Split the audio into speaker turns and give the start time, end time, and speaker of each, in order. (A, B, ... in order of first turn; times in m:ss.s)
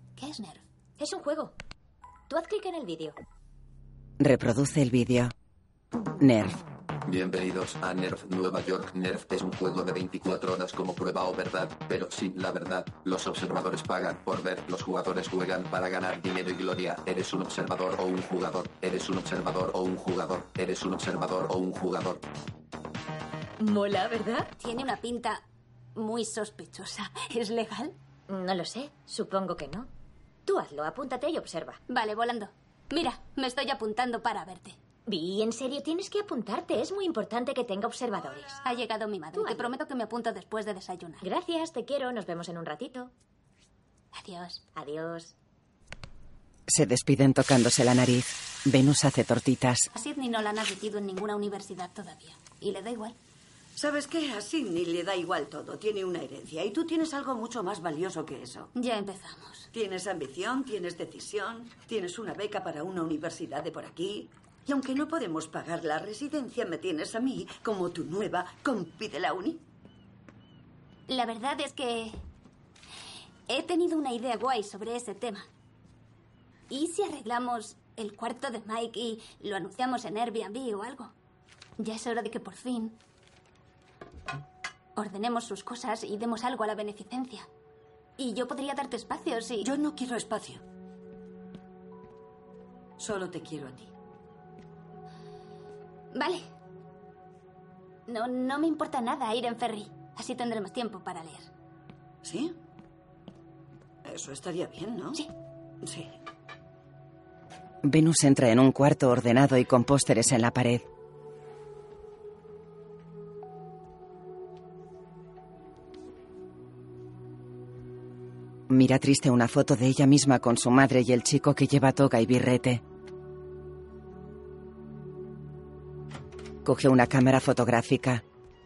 0:00.2-0:00.6 A
0:01.0-0:01.5 B
0:02.3-0:03.2 B
0:04.2-0:05.3 C
0:06.2-0:06.6 C
0:07.0-0:22.2 D
0:23.6-0:24.5 B
0:24.6-0:25.4 A
0:26.0-0:28.0 A
0:28.3-0:29.9 B
0:30.4-0:31.8 B
0:31.9-0:34.8 A
0:35.0-0:38.6 B
0:38.6-0:41.2 A
0:39.3-0:39.7 B
0:41.2-0:43.1 B
0:44.1-0:44.6 A
0:44.7-0:45.3 B
0:46.7-0:49.9 C
0:49.9-0:53.2 A
0:53.8-0:58.7 E
0:58.7-0:59.7 A
0:59.7-1:09.6 E
1:11.1-1:12.2 A
1:13.5-1:15.5 A
1:16.7-1:21.1 A
1:21.8-1:23.0 A
1:25.0-1:27.5 A
1:28.2-1:29.7 A
1:29.6-1:30.6 E
1:33.0-1:33.9 E
1:36.1-1:36.5 A
1:38.1-1:41.5 A
1:42.2-1:42.6 E
1:44.0-1:45.2 E
1:45.8-1:46.1 E
1:47.8-1:50.8 C
1:58.7-2:02.8 C
2:06.6-2:08.2 C